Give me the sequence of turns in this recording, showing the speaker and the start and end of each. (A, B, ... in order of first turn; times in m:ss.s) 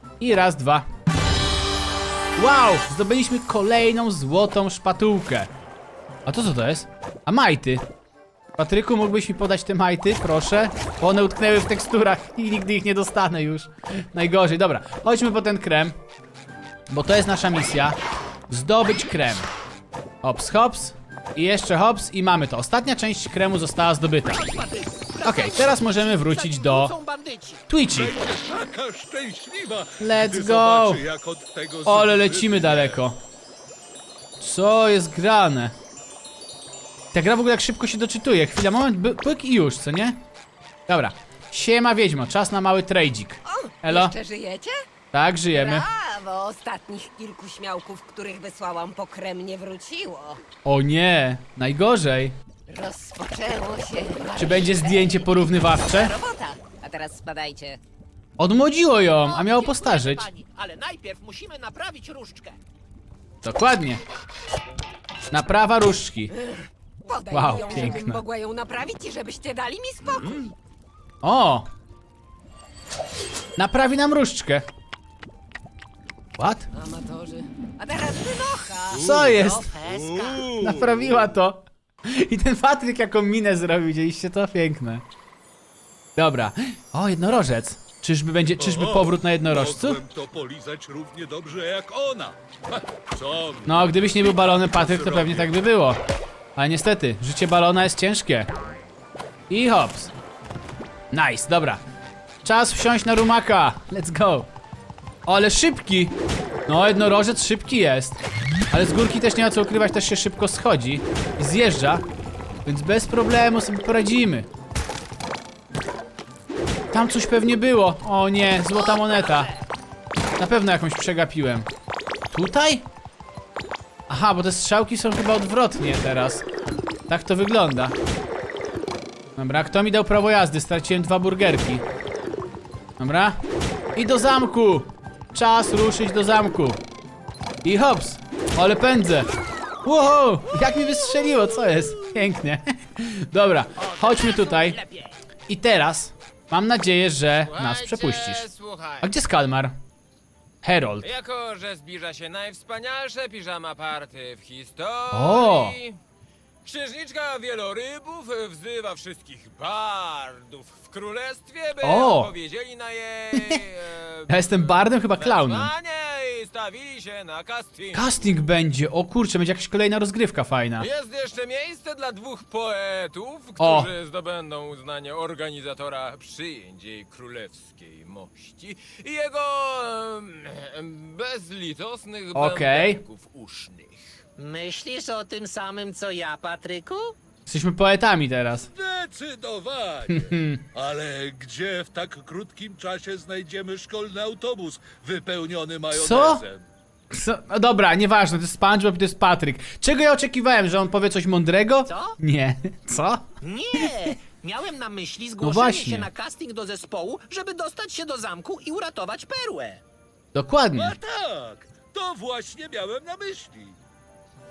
0:00.2-0:00.9 A
0:02.4-0:05.5 A
0:06.3-0:07.8 A
0:08.6-0:16.0 A
0:16.9-0:18.0 A
0:18.5-0:19.5 A
0:20.2-0:24.5 A
0:24.3-0:27.6 B
0:25.2-0:26.9 A
0:27.7-0:28.2 A
0:27.9-0:33.0 C
0:30.0-0:31.0 A
0:31.9-0:33.2 A
0:34.4-0:35.7 A
0:37.1-0:40.2 A
0:40.9-0:44.1 A
0:43.5-0:44.8 D
0:45.1-0:45.8 A
0:45.5-0:50.4 D
0:50.6-0:52.4 A
0:52.7-0:57.8 D
0:54.4-0:56.2 A
0:58.4-1:00.3 A
0:59.2-1:02.6 B
1:03.4-1:04.0 A
1:05.3-1:06.3 A
1:06.3-1:10.5 D
1:07.3-1:08.2 A
1:11.2-1:11.7 A
1:13.6-1:14.7 A
1:16.4-1:16.7 A
1:16.7-1:19.1 D
1:18.9-1:21.4 C
1:19.0-1:19.7 A
1:19.4-1:20.5 B
1:20.5-1:25.0 A
1:26.2-1:30.0 A
1:28.6-1:35.6 C
1:33.6-1:36.0 A
1:36.6-1:38.5 A
1:39.5-1:40.1 A
1:41.1-1:41.8 A
1:42.4-1:44.5 A
1:45.3-1:48.2 A
1:48.7-1:52.0 A
1:52.7-1:54.5 A
1:56.9-1:59.5 A
1:58.7-1:59.7 B
2:00.4-2:01.7 A
2:02.3-2:02.9 A
2:04.1-2:06.5 A
2:07.1-2:08.0 A
2:09.4-2:11.8 A
2:13.0-2:13.4 A
2:14.0-2:16.8 A
2:17.6-2:19.3 A
2:19.8-2:24.8 A
2:23.8-2:25.1 B
2:25.5-2:28.4 A
2:27.5-2:29.1 E
2:29.0-2:29.8 A
2:30.6-2:31.1 A
2:31.0-2:36.0 E
2:35.1-2:35.8 A
2:36.6-2:48.3 E
2:41.8-2:42.3 A
2:43.3-2:43.6 A
2:44.3-2:45.7 A
2:47.9-2:50.9 A
2:50.8-3:04.2 E
2:53.6-2:53.9 A
3:02.3-3:03.0 A
3:04.4-3:07.2 B
3:07.5-3:08.7 A
3:08.6-3:16.7 C
3:10.1-3:10.6 A
3:15.9-3:16.4 A
3:17.1-3:23.3 A
3:21.9-3:22.2 B
3:23.4-3:29.8 B
3:23.8-3:24.1 A
3:25.4-3:26.1 A
3:30.3-3:31.0 A
3:30.8-3:33.8 C